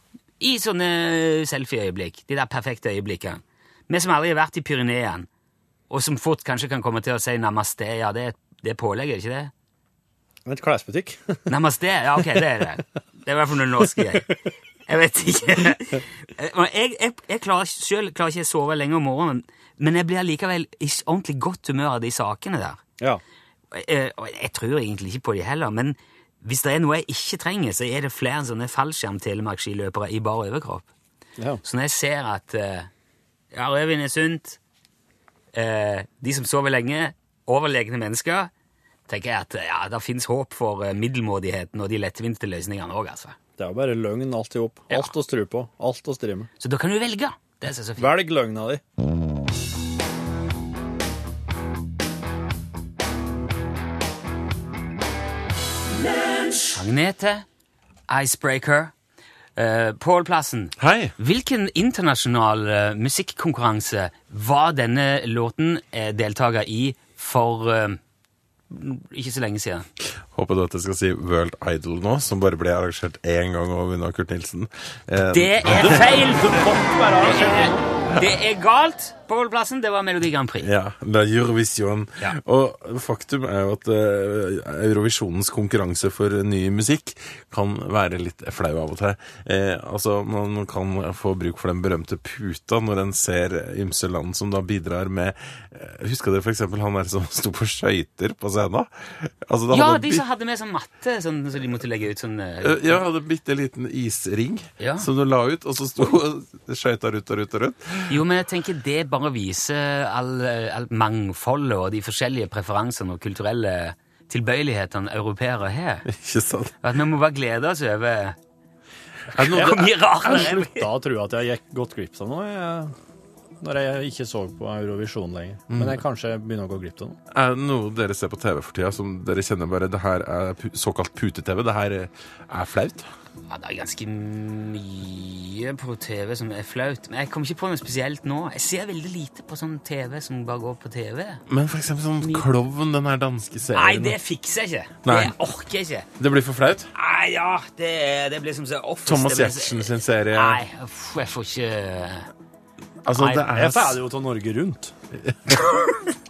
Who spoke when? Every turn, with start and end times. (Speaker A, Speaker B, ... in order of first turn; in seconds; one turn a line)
Speaker A: 0.4-5.3
Speaker A: 5.9-9.5
Speaker B: 10.5-11.5
Speaker A: 11.5-22.8
Speaker A: 23.7-30.9
Speaker B: 31.4-31.6
Speaker A: 31.6-32.9
Speaker A: 33.5-34.6
Speaker A: 35.5-38.5
Speaker A: 39.1-43.4
Speaker B: 43.6-46.5
Speaker A: 46.6-48.1
Speaker B: 48.0-48.8
Speaker A: 56.7-57.5
Speaker A: 58.1-58.9
Speaker A: 59.6-68.0
Speaker C: 60.8-61.1
Speaker A: 68.7-69.9
Speaker C: 70.3-76.4
Speaker A: 75.3-80.7
Speaker B: 75.7-77.8
Speaker C: 80.6-100.2
Speaker A: 99.7-103.0
Speaker C: 102.6-108.2
Speaker A: 104.8-105.1
Speaker A: 108.1-116.0
Speaker C: 116.1-116.8
Speaker A: 116.8-118.4
Speaker A: 119.3-120.9
Speaker C: 119.3-120.0
Speaker B: 119.5-123.0
Speaker B: 123.6-127.2
Speaker C: 125.7-126.0
Speaker C: 127.3-133.1
Speaker A: 133.5-141.4
Speaker C: 141.5-144.2
Speaker A: 143.7-146.1
Speaker C: 145.1-145.4
Speaker C: 146.2-146.9
Speaker A: 146.9-152.3
Speaker C: 149.1-150.6
Speaker C: 153.1-154.0
Speaker A: 153.2-153.5
Speaker B: 153.6-154.9
Speaker C: 155.2-155.7